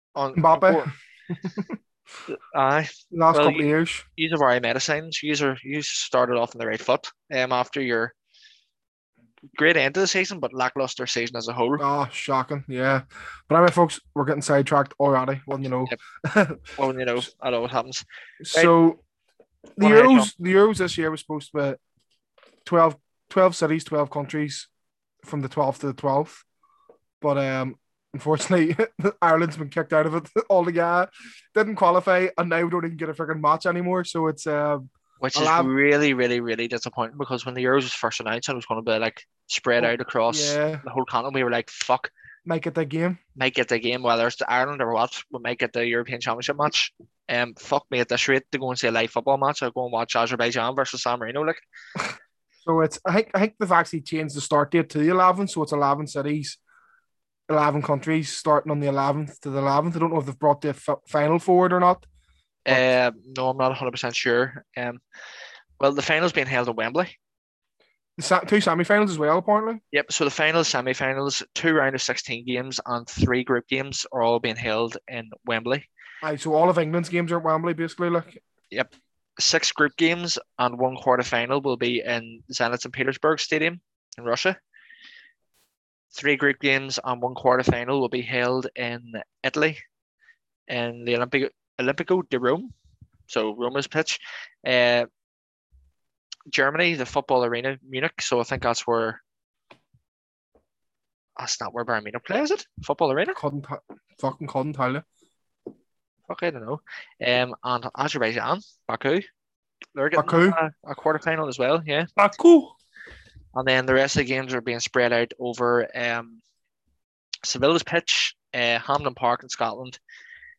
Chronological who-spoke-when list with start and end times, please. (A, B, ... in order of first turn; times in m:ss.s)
0:00.2-0:00.9 A
0:00.4-0:00.9 B
0:02.3-0:08.1 A
0:03.1-0:04.0 B
0:09.5-0:11.8 A
0:11.8-0:16.7 B
0:16.8-0:18.7 A
0:18.4-0:19.0 B
0:19.8-0:21.8 B
0:19.8-0:20.3 A
0:22.6-0:24.7 B
0:25.2-0:26.4 B
0:27.2-0:35.7 B
0:35.2-0:42.1 A
0:39.8-0:40.8 B
0:42.4-0:43.2 B
0:43.4-0:51.6 A
0:52.6-0:56.6 B
0:57.5-1:02.0 B
1:02.6-1:05.0 A
1:05.8-1:07.1 A
1:08.2-1:09.8 B
1:09.9-1:15.8 A
1:16.2-1:18.4 B
1:18.7-1:24.6 A
1:26.1-1:29.8 A
1:30.7-1:32.7 A
1:33.3-1:35.1 A
1:36.5-1:39.2 A
1:41.4-1:43.4 A
1:43.4-1:45.0 B
1:46.3-1:49.2 A
1:49.9-1:52.1 A
1:50.2-1:50.6 B
1:52.2-1:52.7 B
1:53.5-1:56.4 A
1:57.4-2:00.0 A